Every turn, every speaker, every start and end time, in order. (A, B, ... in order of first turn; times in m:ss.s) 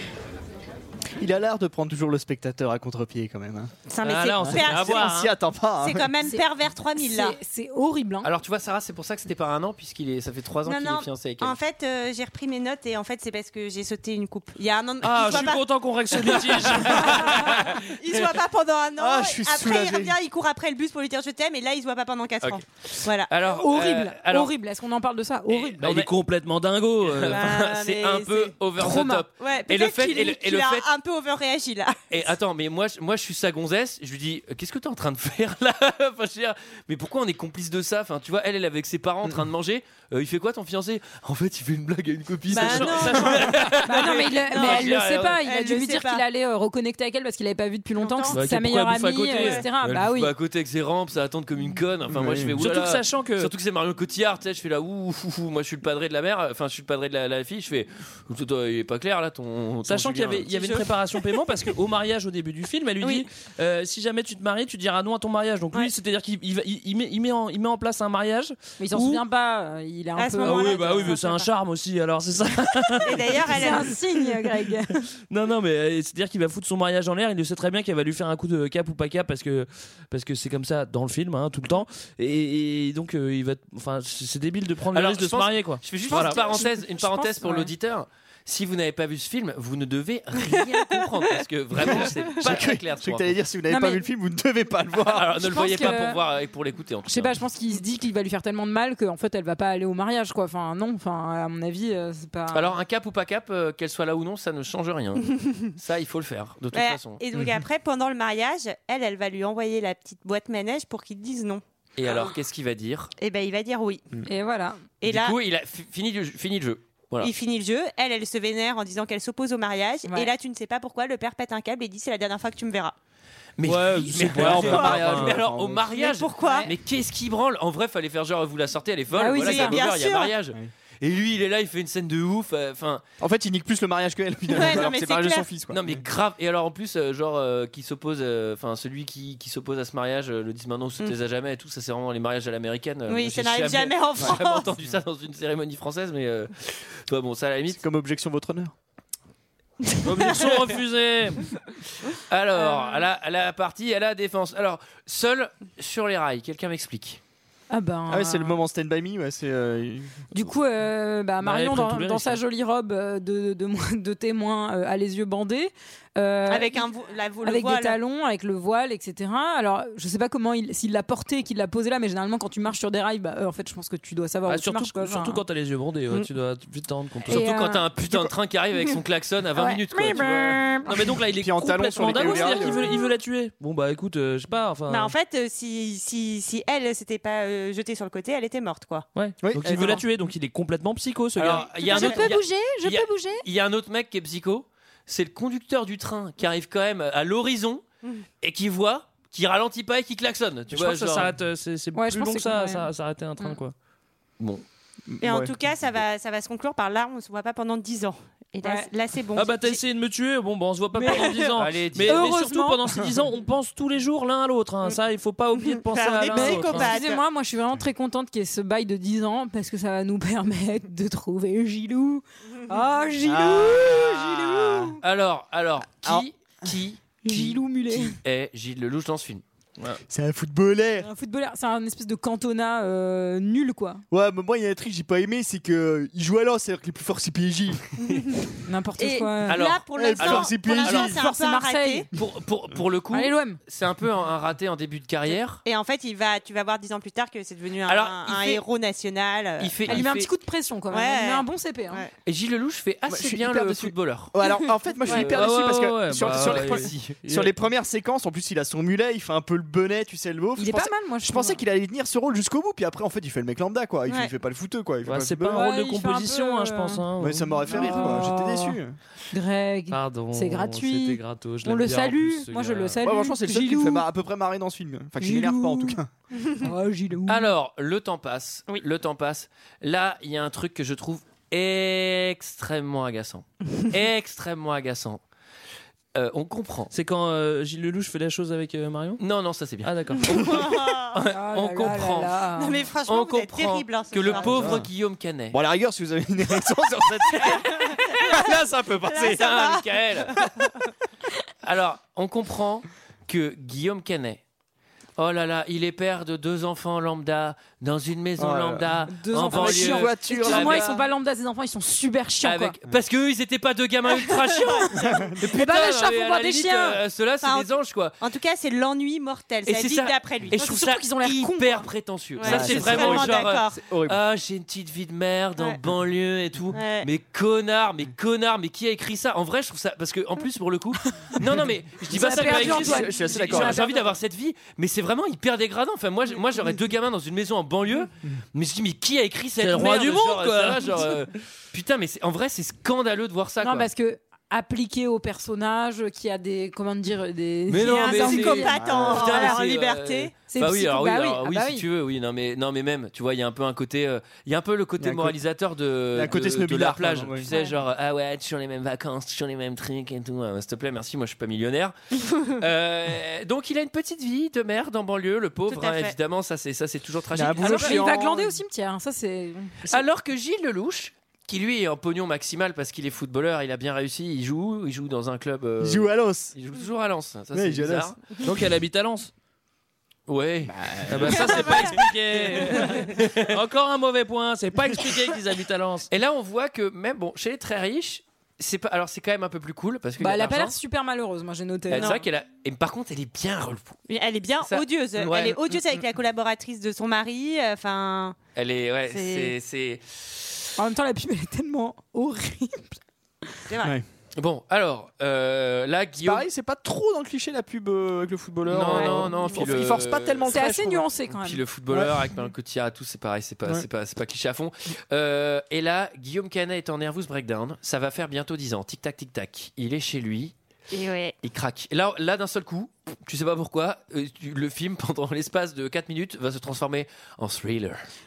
0:01.2-0:03.7 A
0:03.9-0:05.2 B
0:04.0-0:05.3 C
0:04.4-0:06.1 A
0:05.8-0:07.4 B
0:07.0-0:08.3 D
0:08.2-0:11.6 E
0:10.6-0:17.2 B
0:15.0-0:17.4 C
0:17.5-0:17.8 E
0:17.9-0:23.3 B
0:19.0-0:20.2 A
0:22.4-0:24.5 E
0:23.4-0:25.8 D
0:25.5-0:26.1 E
0:25.8-0:27.5 C
0:27.0-0:30.9 E
0:27.3-0:28.6 B
0:28.8-0:29.2 D
0:29.4-0:32.2 B
0:32.1-0:45.4 E
0:42.5-0:46.2 B
0:42.6-0:43.3 C
0:43.8-0:50.3 D
0:48.0-0:48.4 B
0:48.3-0:49.6 C
0:49.4-0:49.6 B
0:49.8-1:00.8 E
0:52.1-0:52.5 A
0:52.6-0:53.5 C
0:59.9-1:09.2 C
1:03.0-1:03.3 B
1:08.8-1:11.2 D
1:10.2-1:11.4 B
1:10.4-1:13.8 C
1:13.0-1:14.0 B
1:13.5-1:15.0 D
1:15.3-1:26.4 C
1:24.9-1:33.4 E
1:26.1-1:27.7 D
1:30.6-1:30.8 B
1:31.8-1:35.6 A
1:33.7-1:34.0 D
1:35.0-1:37.4 E
1:35.4-1:36.2 D
1:37.1-1:42.7 D
1:42.5-1:47.2 E
1:46.7-1:52.3 B
1:47.3-1:47.6 A
1:52.0-1:53.1 E
1:53.2-1:54.1 B
1:54.3-1:54.8 D
1:55.0-1:55.4 B
1:55.0-1:57.3 E
1:57.2-2:03.0 B
2:00.1-2:00.3 D
2:03.6-2:13.0 E
2:03.6-2:05.4 C
2:04.2-2:05.9 A
2:05.9-2:06.7 B
2:06.4-2:06.7 D
2:09.1-2:09.8 D
2:09.3-2:10.3 B
2:13.2-2:16.0 A
2:14.5-2:15.5 B
2:15.7-2:27.8 E
2:23.1-2:24.7 B
2:27.7-2:28.7 A
2:30.0-2:31.4 C
2:30.2-2:30.4 B
2:32.1-2:37.2 E
2:32.6-2:33.0 B
2:37.7-2:38.6 D
2:38.1-2:40.2 A
2:40.3-2:46.9 D
2:41.4-2:42.4 C
2:46.5-2:48.0 B
2:47.4-2:55.4 D
2:54.5-2:57.4 C
2:57.3-2:57.8 D
2:57.3-3:01.2 E
2:58.1-2:58.3 A
2:59.6-3:00.8 B
3:01.1-3:05.1 C
3:01.3-3:02.8 A
3:04.9-3:09.1 B
3:09.1-3:11.7 C
3:09.4-3:10.0 A
3:11.4-3:17.8 E
3:11.7-3:13.4 D
3:11.8-3:12.3 B
3:18.4-3:21.3 E
3:20.7-3:23.7 C
3:21.9-3:22.9 D
3:24.4-3:24.6 E
3:25.1-3:25.5 A
3:25.2-3:29.8 B
3:28.6-3:28.9 D
3:29.3-3:36.9 C
3:31.0-3:31.4 B
3:31.0-3:31.4 D
3:31.6-3:32.2 E
3:32.1-3:32.8 D
3:35.6-3:37.2 B
3:36.3-3:45.0 D
3:43.2-3:44.9 A
3:45.0-3:49.4 E
3:46.0-3:46.7 A
3:47.2-3:48.2 D
3:50.1-3:51.1 A
3:51.0-3:54.0 D
3:54.1-3:57.9 A
3:58.0-3:58.5 B
3:58.7-3:59.6 D
3:59.0-4:02.1 B
3:59.5-4:01.1 E
4:00.0-4:01.2 A
4:01.0-4:02.0 D
4:02.1-4:05.6 E
4:03.1-4:03.6 D
4:05.6-4:10.0 B
4:07.9-4:08.6 E
4:09.6-4:10.3 E
4:09.9-4:12.0 D
4:10.9-4:12.1 B
4:12.3-4:14.3 E
4:13.1-4:25.6 A
4:15.1-4:15.5 E
4:15.2-4:17.5 C
4:16.2-4:17.2 E
4:20.6-4:21.6 D
4:25.0-4:28.2 C
4:25.5-4:27.0 D
4:27.2-4:29.0 A
4:27.7-4:28.8 D
4:29.3-4:34.1 D
4:29.9-4:33.0 C
4:33.0-4:36.1 A
4:35.2-4:36.0 D
4:36.6-4:37.5 D
4:37.3-4:45.2 E
4:46.1-4:46.9 E
4:46.9-4:49.2 C
4:49.2-4:52.4 E
4:49.8-4:50.3 C
4:50.2-4:51.2 B
4:51.3-4:52.8 D
4:52.6-4:54.8 B
4:53.1-4:55.6 E
4:54.3-4:54.9 A
4:55.5-4:59.4 A
4:57.4-4:58.5 B
4:58.4-5:00.4 E
4:59.0-5:00.4 B
5:01.6-5:04.4 E
5:05.2-5:10.9 E
5:08.4-5:10.9 A
5:09.1-5:12.7 D
5:12.4-5:18.2 E
5:14.1-5:15.2 B
5:15.0-5:15.4 A
5:15.4-5:17.0 D
5:17.4-5:20.6 B
5:19.6-5:43.9 E
5:20.6-5:21.9 D
5:22.4-5:23.8 B
5:22.4-5:24.2 A
5:26.7-5:27.1 B
5:32.1-5:34.1 D
5:32.3-5:33.8 A
5:39.6-5:41.1 C
5:43.6-5:48.8 D
5:47.7-6:01.9 E
5:47.8-5:50.3 B
5:48.7-5:49.5 A
5:50.5-5:51.8 D
5:55.0-5:55.4 A
5:56.1-5:57.5 A
6:02.4-6:08.1 E
6:05.7-6:06.1 B
6:07.3-6:08.6 A
6:07.6-6:09.8 D
6:09.9-6:18.2 E
6:15.8-6:16.5 A
6:17.5-6:18.2 A
6:18.4-6:19.3 C
6:20.3-6:23.6 E
6:20.6-6:21.8 A
6:21.1-6:26.1 C
6:26.1-6:30.8 E
6:30.2-6:32.2 D
6:31.9-6:34.0 E
6:34.1-6:38.4 B
6:34.6-6:35.6 E
6:38.6-6:40.5 E
6:39.1-6:39.5 B
6:40.8-6:43.0 D
6:43.7-6:44.0 B
6:44.4-6:46.4 E
6:46.2-6:51.1 A
6:48.7-6:50.7 E
6:50.5-6:51.6 D
6:51.3-7:00.5 E
6:51.9-6:52.3 A
7:00.9-7:01.4 B
7:01.4-7:08.0 E